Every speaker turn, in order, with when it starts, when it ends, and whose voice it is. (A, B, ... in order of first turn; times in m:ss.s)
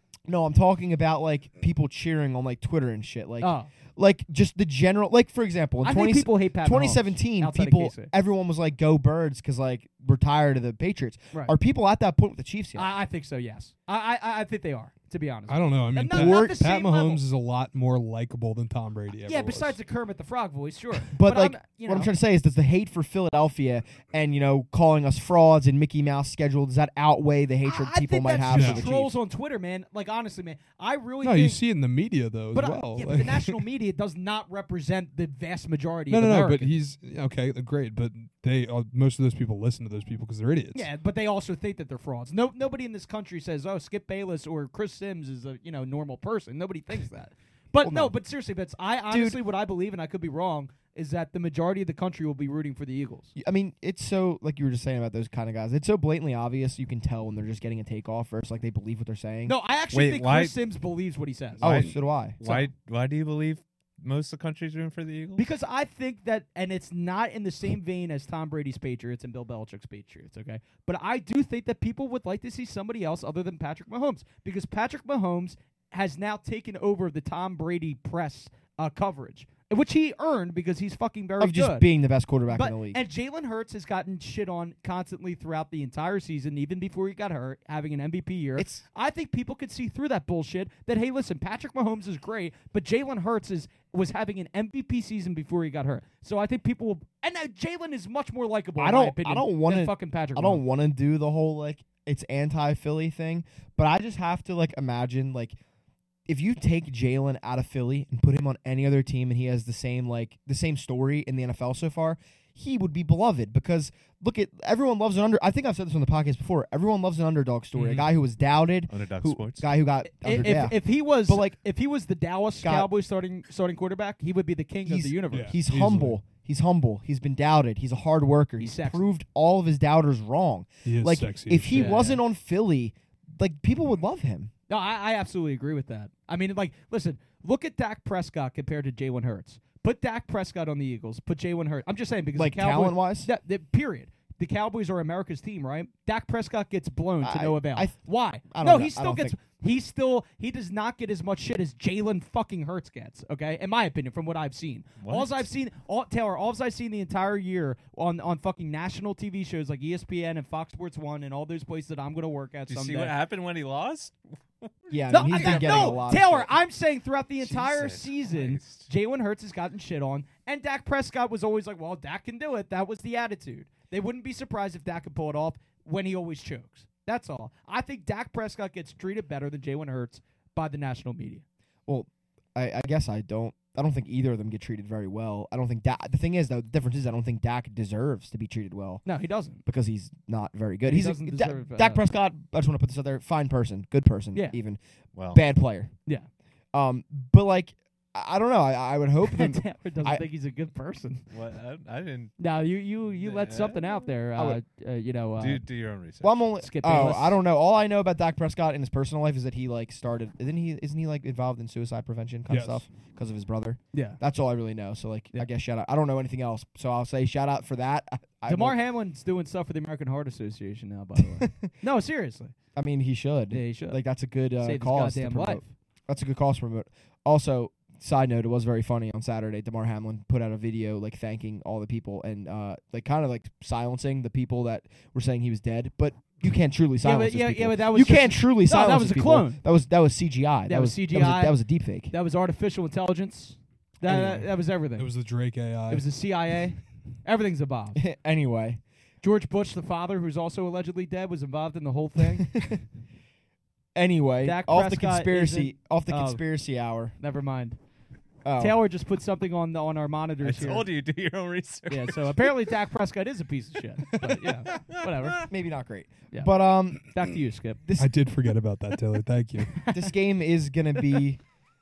0:00.3-0:12.9 A
0:03.4-0:03.7 B
0:05.8-0:08.1 B
0:12.7-0:17.2 B
0:15.5-0:19.8 C
0:16.1-0:16.6 A
0:19.2-0:22.1 B
0:21.1-0:29.1 A
0:27.6-0:31.6 B
0:28.5-0:28.8 C
0:31.2-0:33.6 C
0:32.5-0:36.7 B
0:36.1-0:40.9 C
0:40.7-0:53.3 B
0:47.8-0:48.1 A
0:49.1-0:49.4 A
0:53.4-0:59.5 A
0:59.4-1:01.6 B
0:59.9-1:00.6 D
1:01.6-1:05.5 D
1:01.6-1:02.4 A
1:02.4-1:02.7 B
1:05.4-1:21.9 B
1:21.4-1:23.0 A
1:22.5-1:40.6 B
1:28.6-1:28.8 A
1:38.8-1:45.6 A
1:46.3-2:01.6 A
1:57.7-1:58.1 C
1:58.9-1:59.7 D
2:00.1-2:05.5 B
2:02.6-2:02.9 A
2:04.8-2:14.5 A
2:05.3-2:06.2 C
2:08.6-2:09.0 B
2:10.8-2:12.0 C
2:11.7-2:12.2 B
2:14.7-2:43.1 B
2:22.4-2:23.3 A
2:27.2-2:29.4 A
2:35.0-2:35.4 D
2:42.7-2:46.1 D
2:44.9-2:46.5 A
2:45.1-3:01.4 B
2:47.4-2:48.9 D
3:01.9-3:09.0 A
3:09.0-3:09.6 B
3:09.6-3:14.8 A
3:10.8-3:12.0 B
3:15.1-3:15.4 D
3:15.3-3:15.9 A
3:16.7-3:20.2 A
3:19.2-3:21.3 B
3:21.3-3:22.3 D
3:22.4-3:25.6 B
3:23.2-3:24.0 D
3:25.4-3:26.3 D
3:26.2-3:38.8 A
3:26.6-3:27.4 B
3:32.5-3:32.8 C
3:33.9-3:34.2 B
3:38.5-3:42.5 B
3:41.2-3:41.7 A
3:42.8-4:02.1 A
3:43.5-3:44.0 B
3:44.6-3:45.7 B
3:57.0-3:59.6 B
4:00.7-4:01.6 B
4:02.1-4:05.1 B
4:04.0-4:04.5 A
4:05.0-4:06.0 C
4:05.9-4:08.0 B
4:08.0-4:08.8 A
4:09.2-4:12.6 B
4:12.4-4:12.8 A
4:13.9-4:17.1 A
4:14.4-4:16.4 B
4:17.2-4:17.8 B
4:18.4-4:18.8 A
4:18.6-4:20.9 B
4:20.4-4:22.5 D
4:21.9-4:25.5 B
4:24.7-4:25.4 D
4:25.5-4:27.0 A
4:26.3-4:27.8 B
4:27.8-4:28.1 A
4:28.0-4:29.8 C
4:29.9-4:31.4 A